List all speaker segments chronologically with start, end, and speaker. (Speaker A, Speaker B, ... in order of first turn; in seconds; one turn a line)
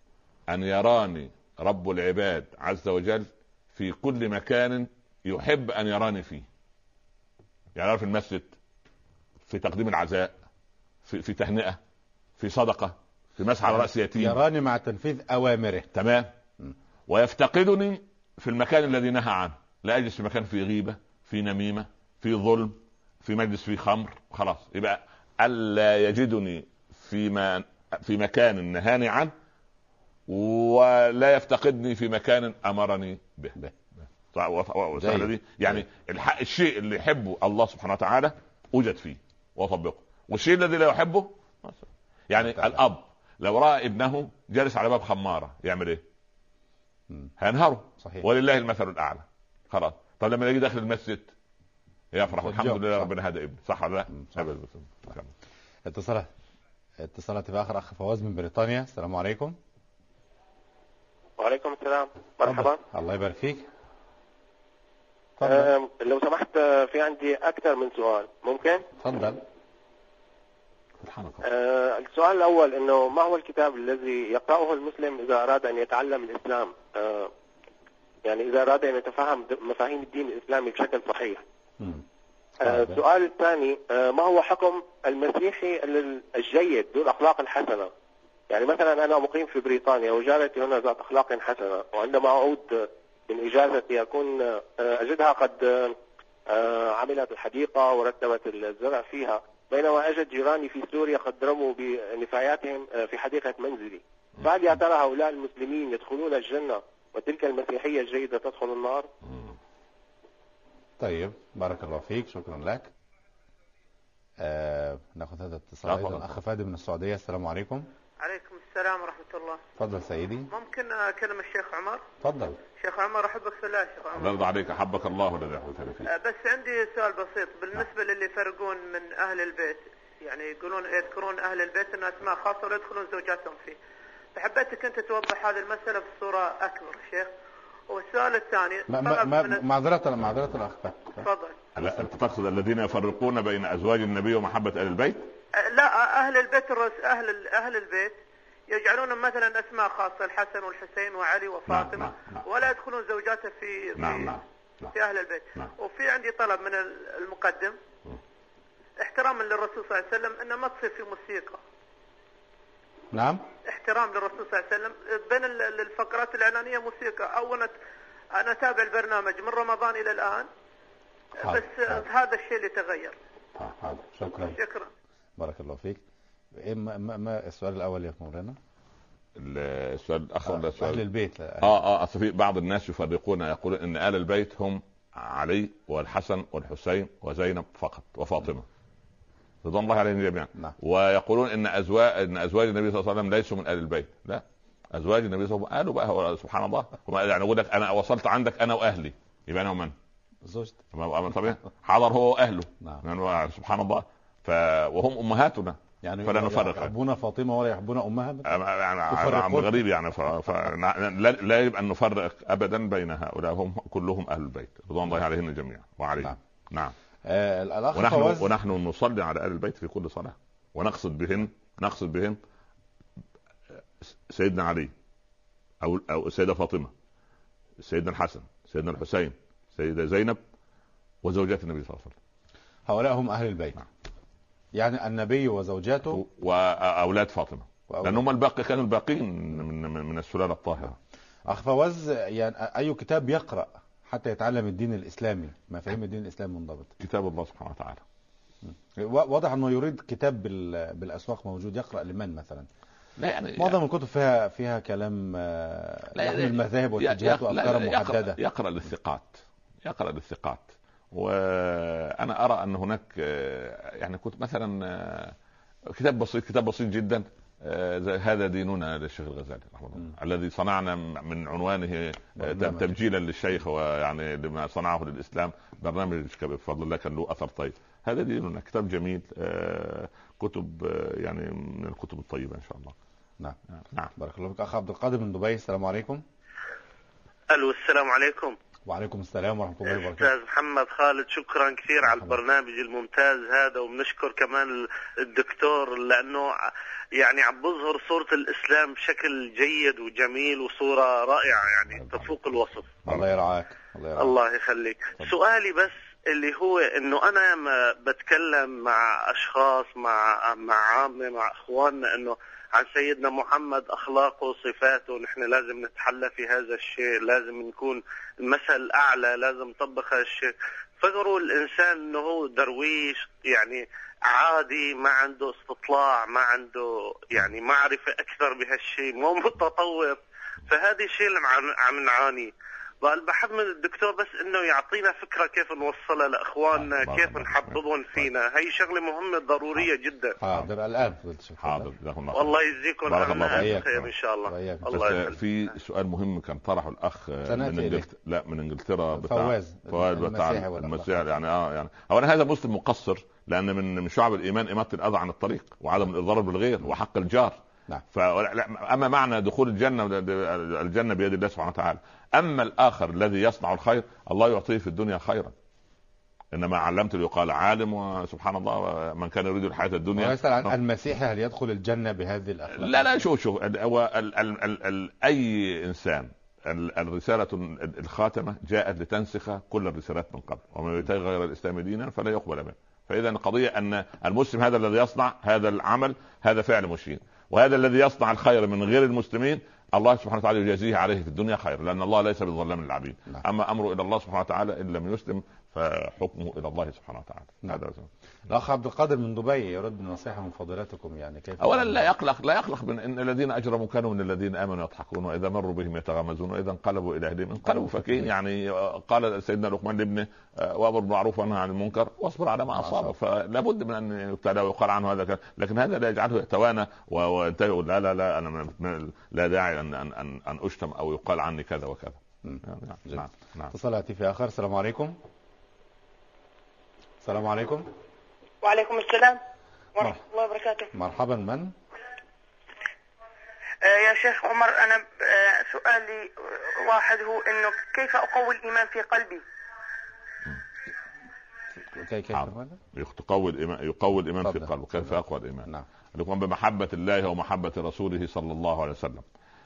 Speaker A: 0.5-6.5
Speaker A: 7.8-8.6
Speaker A: 9.5-10.4
Speaker A: 11.1-11.8
Speaker A: 12.4-14.4
Speaker B: 13.6-15.9
Speaker A: 15.9-16.3
Speaker A: 17.1-29.3
Speaker A: 30.3-46.0
Speaker B: 35.0-35.3
Speaker B: 42.4-42.8
Speaker A: 47.4-51.3
Speaker A: 52.1-55.3
Speaker B: 52.3-53.1
Speaker B: 54.1-54.4
Speaker B: 55.9-56.3
Speaker B: 57.0-59.6
Speaker C: 61.4-62.8
Speaker B: 62.4-63.7
Speaker B: 65.4-65.7
Speaker C: 65.4-68.9
Speaker B: 69.0-69.4
Speaker A: 71.0-71.5
Speaker C: 71.4-77.3
Speaker C: 78.2-81.4
Speaker B: 81.8-82.0
Speaker C: 82.6-87.9
Speaker B: 82.6-83.0
Speaker C: 88.5-109.1
Speaker A: 109.3-109.5
Speaker B: 111.0-112.9
Speaker B: 114.4-117.9
Speaker A: 115.8-116.4
Speaker D: 118.2-119.6
Speaker B: 119.8-120.5
Speaker D: 120.5-122.0
Speaker B: 122.2-122.6
Speaker D: 122.8-124.4
Speaker A: 124.2-126.1
Speaker D: 126.0-133.8
Speaker D: 134.3-137.3
Speaker D: 137.9-139.6
Speaker B: 138.9-141.3
Speaker D: 141.2-141.6
Speaker A: 141.8-145.3
Speaker D: 145.6-148.2
Speaker D: 148.7-157.8
Speaker A: 151.7-152.4
Speaker A: 154.0-154.9
Speaker D: 159.0-161.6
Speaker B: 163.1-163.4
Speaker D: 163.7-167.7
Speaker D: 168.3-170.5
Speaker B: 171.4-172.0
Speaker D: 171.4-173.2
Speaker B: 173.8-174.6
Speaker D: 174.3-174.9
Speaker B: 175.4-176.0
Speaker B: 176.5-178.6
Speaker A: 179.4-181.1
Speaker B: 180.5-181.8
Speaker A: 181.6-188.7
Speaker A: 189.6-199.9
Speaker B: 200.4-200.8
Speaker A: 200.9-206.9
Speaker B: 206.0-208.5
Speaker A: 208.4-216.9
Speaker B: 209.1-209.8
Speaker B: 217.2-218.5
Speaker A: 217.9-222.4
Speaker A: 224.0-224.9
Speaker A: 225.8-226.9
Speaker A: 227.8-230.4
Speaker A: 231.2-232.2
Speaker B: 232.9-233.8
Speaker B: 234.8-236.2
Speaker A: 236.1-241.0
Speaker B: 237.9-238.2
Speaker B: 241.5-246.9
Speaker A: 247.0-248.0
Speaker B: 248.7-252.7
Speaker A: 253.2-253.8
Speaker B: 253.6-258.4
Speaker A: 256.1-265.4
Speaker A: 265.9-282.9
Speaker B: 272.4-273.0
Speaker A: 283.7-284.1
Speaker B: 284.2-286.2
Speaker E: 287.5-288.6
Speaker B: 288.9-290.3
Speaker E: 290.0-302.9
Speaker B: 292.1-292.3
Speaker A: 301.9-302.3
Speaker A: 303.1-303.3
Speaker B: 303.1-304.4
Speaker E: 304.2-340.4
Speaker A: 336.7-338.3
Speaker B: 340.4-341.9
Speaker A: 340.4-340.7
Speaker A: 341.6-344.1
Speaker E: 342.3-345.4
Speaker B: 343.5-343.9
Speaker B: 344.5-344.9
Speaker A: 344.9-357.6
Speaker B: 347.4-348.1
Speaker B: 349.1-351.2
Speaker A: 358.1-365.6
Speaker A: 366.5-370.7
Speaker B: 370.1-373.1
Speaker A: 372.7-398.1
Speaker B: 398.5-402.1
Speaker A: 401.6-423.7
Speaker B: 407.8-408.2
Speaker B: 412.8-413.1
Speaker B: 422.4-425.2
Speaker B: 427.2-427.9
Speaker F: 428.6-429.4
Speaker F: 430.0-430.9
Speaker B: 430.9-431.7
Speaker F: 433.8-439.4
Speaker B: 441.9-442.8
Speaker A: 442.3-449.2
Speaker B: 444.4-444.7